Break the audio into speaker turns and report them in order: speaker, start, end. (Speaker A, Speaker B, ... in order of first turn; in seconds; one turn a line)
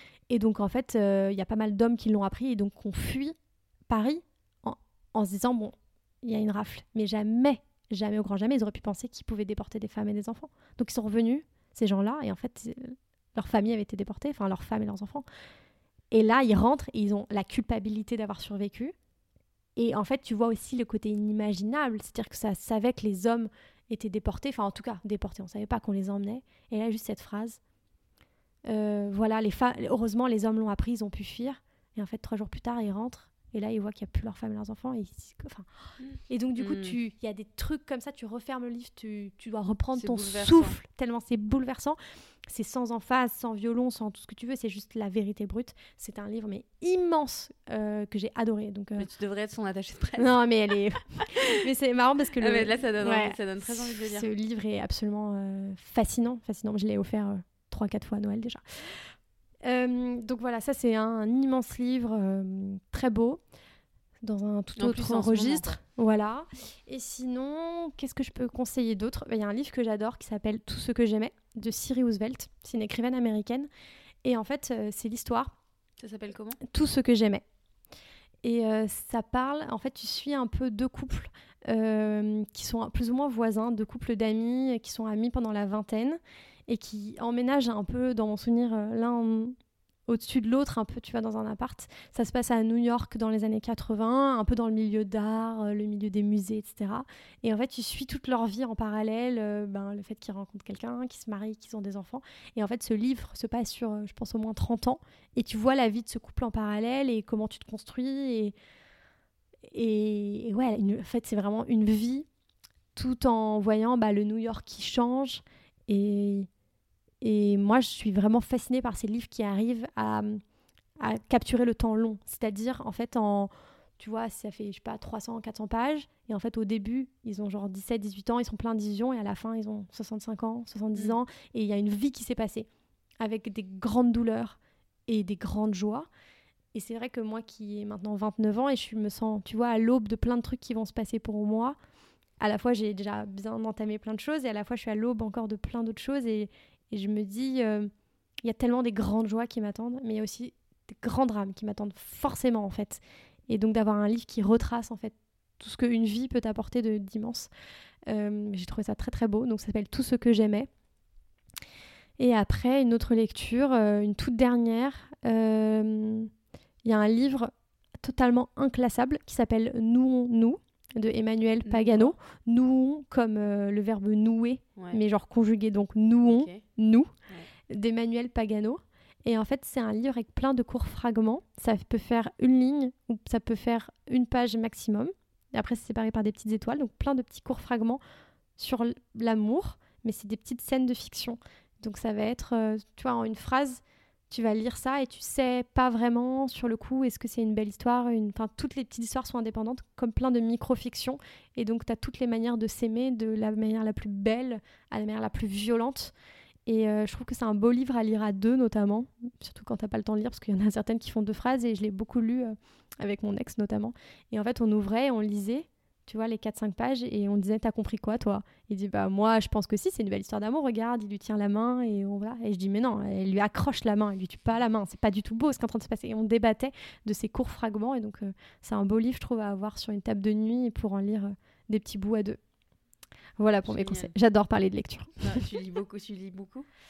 Speaker A: 0.3-3.4
Speaker A: 3.9-15.2
Speaker A: 16.1-18.9
Speaker A: 19.8-27.6
Speaker A: 28.7-35.7
Speaker B: 36.0-37.0
Speaker A: 36.3-49.1
Speaker B: 40.0-40.8
Speaker B: 49.0-50.4
Speaker A: 50.2-59.1
Speaker B: 51.3-51.6
Speaker B: 52.4-54.3
Speaker A: 59.6-63.4
Speaker A: 64.2-73.7
Speaker B: 64.8-65.8
Speaker A: 74.2-75.5
Speaker B: 76.0-76.6
Speaker A: 76.6-77.4
Speaker A: 78.4-89.6
Speaker A: 90.1-108.5
Speaker A: 109.7-112.3
Speaker A: 113.0-116.5
Speaker A: 117.2-120.4
Speaker A: 121.0-132.7
Speaker A: 133.2-136.1
Speaker A: 136.7-141.8
Speaker A: 142.4-147.9
Speaker A: 148.4-157.5
Speaker A: 158.1-160.7
Speaker A: 162.2-166.3
Speaker A: 166.8-177.1
Speaker B: 171.6-172.1
Speaker B: 176.2-176.6
Speaker A: 177.7-188.0
Speaker A: 188.6-206.1
Speaker A: 206.7-232.4
Speaker A: 233.4-235.4
Speaker B: 233.6-234.1
Speaker B: 235.2-236.7